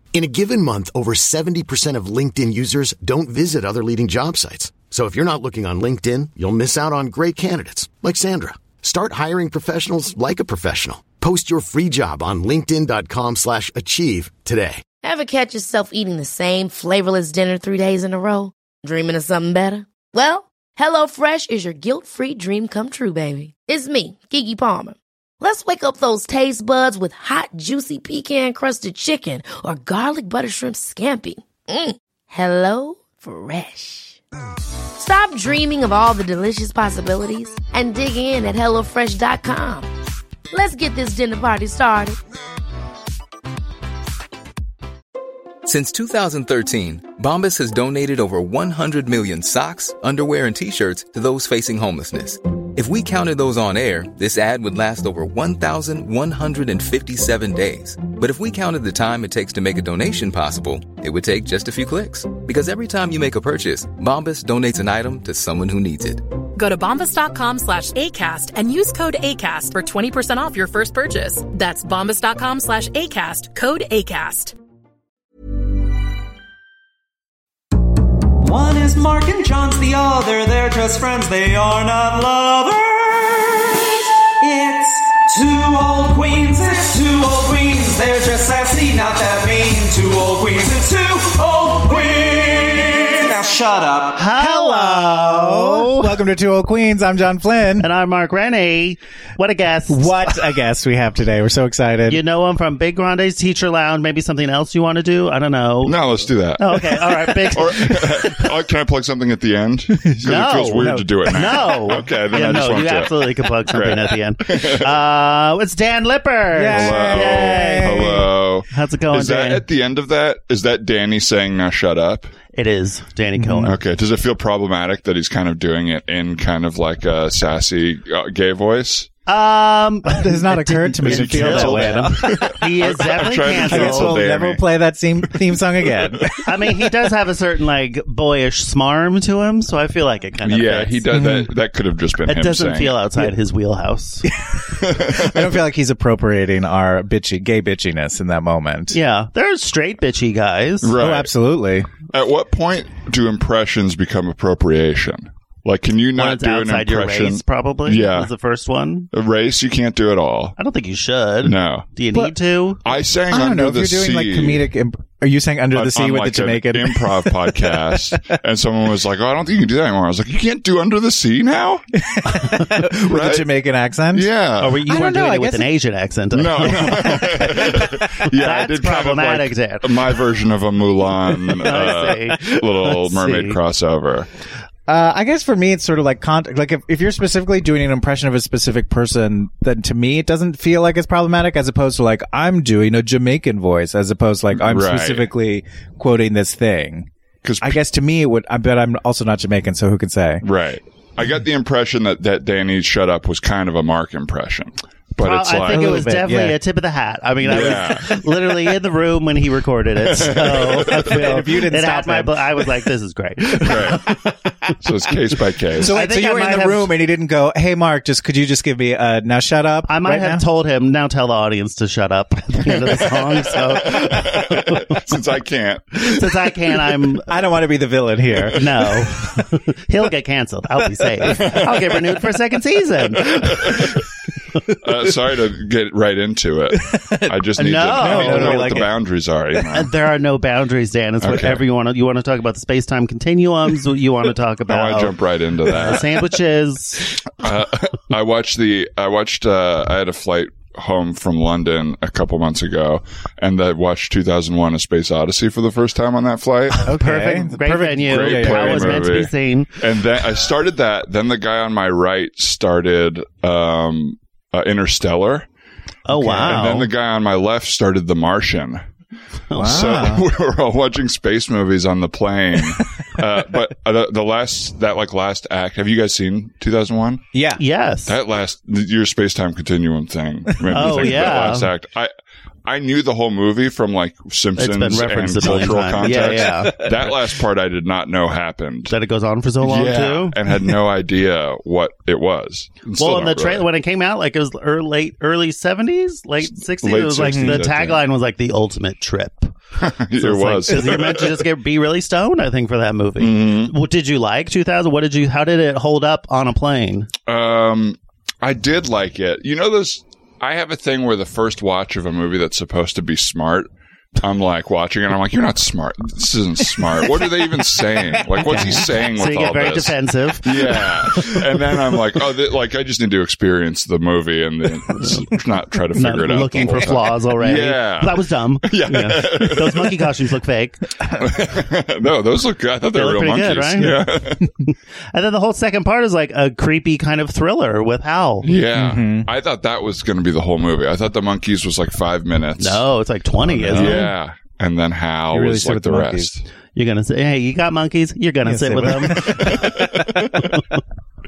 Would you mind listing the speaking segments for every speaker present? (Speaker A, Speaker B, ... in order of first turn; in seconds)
Speaker A: 0.1-14.8
Speaker B: 15.0-34.2, 35.0-39.9, 40.5-42.2
Speaker C: 45.6-66.2
Speaker D: 66.5-74.5
Speaker E: 78.4-94.2
Speaker F: 94.2-96.2, 97.8-100.5, 102.1-106.0, 106.6-108.4, 110.2-118.1, 118.7-119.7, 122.5-123.8, 129.3-134.2, 136.4-141.0, 142.3-144.2, 148.9-150.9, 156.2-159.1, 160.6-162.8, 174.6-180.1, 181.6-183.6, 205.2-214.0, 215.8-216.9, 219.9-225.1, 226.1-227.3, 228.5-233.9, 237.6-238.8, 239.7-245.2, 245.7-247.2, 256.9-259.7, 266.1-266.9, 269.6-269.9, 277.6-278.1, 280.7-281.7, 284.6-286.8, 288.9-290.4, 293.0-299.5, 300.2-307.1, 318.4-321.4, 325.9-331.0, 332.9-334.0, 334.7-338.5, 342.6-344.0, 346.8-349.8
Speaker G: 94.4-97.9, 99.9-102.2, 110.0-111.8, 116.5-118.2, 123.4-123.7, 130.1-132.6, 133.5-136.8, 141.1-141.5, 144.3-149.0, 151.0-151.9, 163.3-167.7, 172.0-174.3, 174.9-175.7, 176.8-177.2, 184.9-197.1, 197.6-200.4, 205.7-206.6, 211.0-212.4, 215.8-220.4, 227.3-228.9, 236.9-237.3, 237.9-238.9, 256.9-259.1, 266.1-266.8, 269.6-270.2, 277.3-277.6, 280.5-281.4, 285.5-287.1, 297.2-297.6, 316.8-318.0, 318.5-318.8, 338.8-339.3, 343.4-344.1, 345.3-346.3, 348.4-349.8
Speaker H: 105.8-114.9, 116.7-122.3, 123.7-129.1, 131.0-134.6, 135.8-136.2, 140.4-143.0, 144.8-145.6, 150.8-151.3, 152.1-158.3, 159.1-160.6, 161.4-161.9, 162.8-164.7, 165.7-171.8, 173.0-173.5, 174.1-174.8, 176.3-184.3, 194.5-195.3, 197.4-197.8, 200.4-206.0, 207.4-208.1, 210.0-211.2, 213.6-214.1, 214.8-216.0, 223.4-226.4, 231.2-232.1, 233.1-234.0, 234.8-239.9, 241.2-241.7, 244.7-246.1, 247.3-256.9, 258.0-265.5, 266.4-268.8, 269.6-277.3, 278.1-282.1, 282.6-288.9, 289.6-293.7, 296.6-298.0, 299.8-301.4, 303.2-303.8, 307.3-330.1, 331.1-334.5, 338.4-342.8, 343.7-346.4, 349.1-350.3